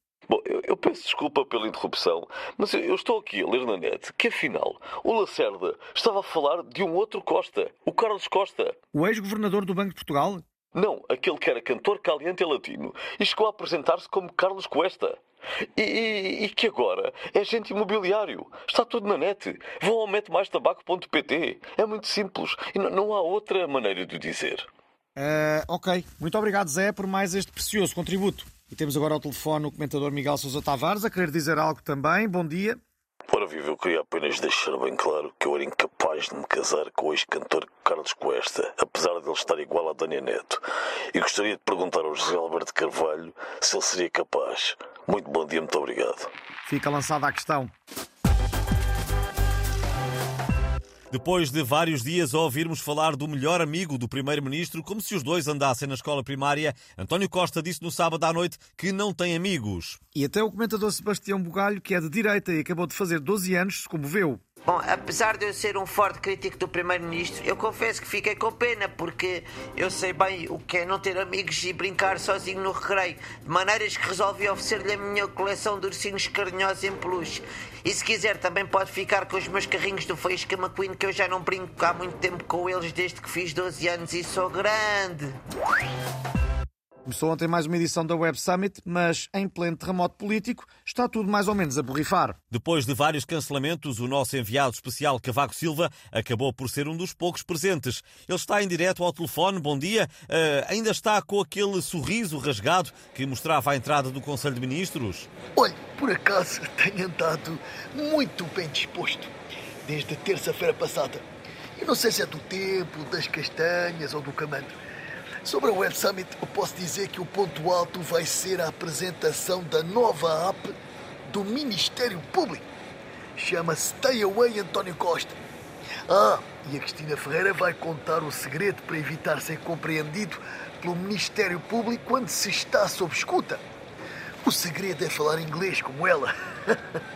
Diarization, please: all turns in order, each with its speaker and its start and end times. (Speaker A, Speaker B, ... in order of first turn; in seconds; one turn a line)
Speaker A: 0.3-8.8
Speaker B: 8.9-10.4
Speaker A: 10.7-15.2
Speaker A: 15.7-24.7
Speaker B: 25.1-32.8
Speaker A: 33.3-46.3
Speaker B: 46.6-47.7
Speaker C: 51.1-60.0
Speaker B: 60.1-64.4
Speaker D: 64.6-85.4
Speaker B: 87.0-92.4
Speaker C: 92.5-105.3
Speaker E: 105.5-109.3
Speaker E: 109.8-111.2
Speaker E: 111.8-114.8
Speaker E: 115.4-120.7
Speaker E: 121.2-122.6
Speaker E: 123.3-125.4
Speaker E: 126.1-133.6
Speaker E: 134.4-136.8